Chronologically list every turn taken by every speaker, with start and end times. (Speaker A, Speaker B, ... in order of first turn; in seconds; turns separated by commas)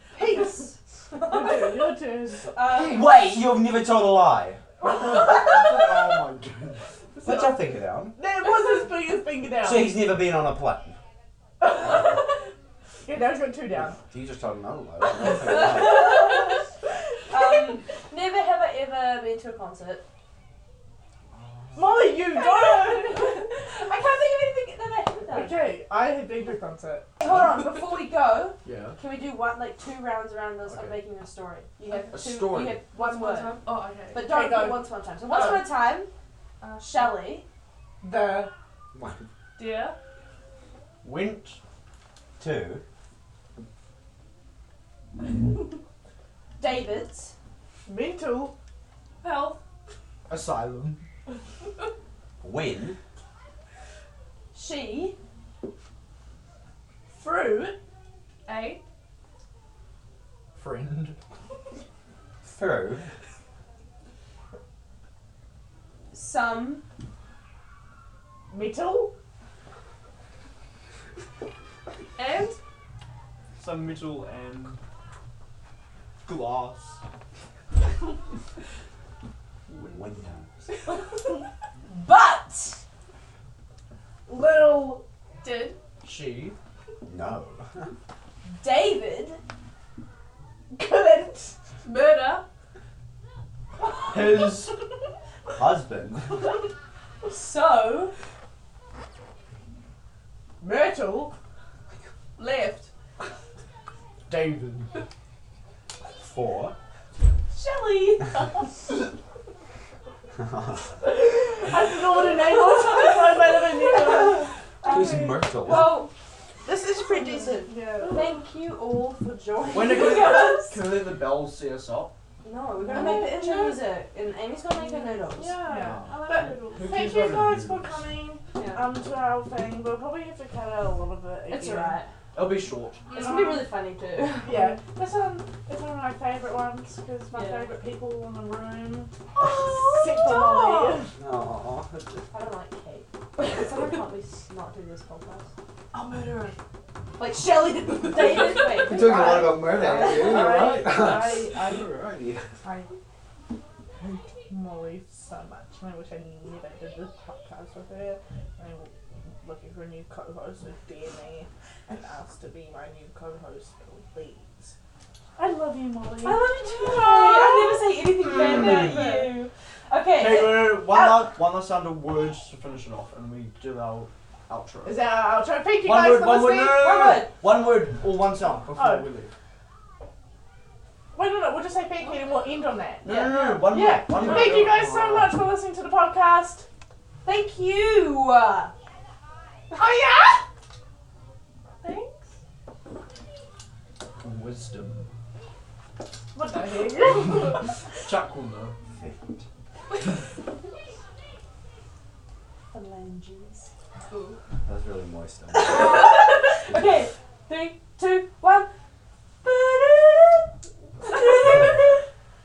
Speaker A: 0.2-1.8, Speaker B: 0.2-2.5, Speaker A: 2.5-3.1, Speaker C: 2.6-4.7, Speaker A: 4.9-5.5, Speaker C: 5.3-6.0, Speaker D: 5.5-6.8, Speaker B: 7.2-10.1, Speaker C: 7.2-8.2, Speaker C: 9.6-11.0, Speaker B: 11.6-12.4, Speaker B: 13.0-14.0, Speaker C: 13.9-16.5, Speaker A: 15.6-16.6, Speaker A: 17.3-20.0, Speaker B: 21.7-23.5, Speaker A: 21.9-25.6, Speaker B: 25.3-27.9, Speaker A: 27.2-33.6, Speaker D: 28.6-29.0, Speaker D: 30.7-31.0, Speaker D: 32.1-32.9, Speaker E: 32.9-34.2, Speaker A: 34.1-36.1, Speaker B: 34.2-34.9, Speaker E: 35.3-35.6, Speaker E: 36.6-37.2, Speaker A: 36.8-37.5, Speaker B: 38.0-38.5, Speaker C: 38.9-39.3, Speaker E: 39.6-40.0, Speaker D: 41.0-41.6, Speaker C: 42.4-42.8, Speaker A: 46.6-47.3, Speaker B: 47.9-48.5, Speaker E: 49.2-49.6, Speaker D: 50.3-51.0, Speaker C: 52.4-53.0, Speaker A: 54.5-55.2, Speaker B: 57.1-57.8, Speaker E: 58.5-58.8, Speaker D: 60.6-61.1, Speaker C: 62.4-63.1, Speaker A: 66.1-66.8, Speaker B: 68.5-69.1, Speaker E: 72.2-72.6, Speaker D: 73.6-74.8, Speaker D: 76.3-77.0, Speaker C: 79.7-80.5, Speaker A: 81.9-82.8, Speaker B: 84.3-85.0, Speaker E: 85.4-85.8, Speaker D: 86.0-86.6, Speaker C: 87.1-87.9, Speaker A: 88.6-89.4, Speaker B: 90.7-91.5, Speaker E: 91.8-92.4, Speaker D: 94.1-94.7, Speaker C: 95.6-96.3, Speaker A: 97.2-98.1, Speaker B: 100.6-101.3, Speaker E: 102.4-102.8, Speaker D: 104.3-104.9, Speaker C: 106.1-106.8, Speaker A: 107.6-108.2, Speaker B: 111.0-115.3, Speaker C: 114.8-116.0, Speaker A: 114.8-116.1, Speaker A: 116.7-120.9, Speaker B: 117.5-118.4, Speaker D: 119.6-122.1, Speaker A: 122.4-125.6, Speaker B: 122.8-123.6, Speaker E: 122.9-123.8, Speaker E: 124.8-127.1, Speaker B: 125.6-132.0, Speaker D: 125.7-127.9, Speaker A: 128.6-128.8, Speaker A: 131.5-132.1, Speaker D: 132.3-133.1, Speaker E: 133.1-133.7, Speaker A: 133.1-134.8, Speaker B: 134.4-141.1, Speaker A: 137.3-137.7, Speaker A: 139.4-141.0, Speaker C: 141.2-142.2, Speaker A: 142.3-145.5, Speaker A: 147.2-151.8, Speaker E: 148.3-148.8, Speaker C: 148.6-152.4, Speaker A: 152.6-152.9, Speaker B: 154.0-164.8, Speaker B: 165.4-167.9, Speaker A: 166.2-171.5, Speaker B: 168.7-169.3, Speaker E: 168.9-169.2, Speaker D: 170.1-175.0, Speaker B: 174.8-176.9, Speaker D: 175.9-179.3, Speaker A: 176.2-177.4, Speaker B: 178.7-179.1, Speaker B: 181.1-186.7, Speaker C: 183.0-184.7, Speaker A: 183.1-184.2, Speaker D: 183.4-185.4, Speaker A: 187.2-188.7, Speaker B: 189.7-190.4, Speaker E: 191.8-192.3, Speaker D: 194.2-195.1, Speaker B: 196.3-197.8, Speaker D: 198.0-198.7, Speaker C: 199.0-199.4, Speaker A: 202.7-203.7, Speaker E: 204.1-204.4, Speaker C: 204.7-206.1, Speaker A: 205.6-208.7, Speaker C: 206.7-207.0, Speaker A: 209.4-210.5, Speaker B: 211.1-211.7, Speaker A: 211.1-211.8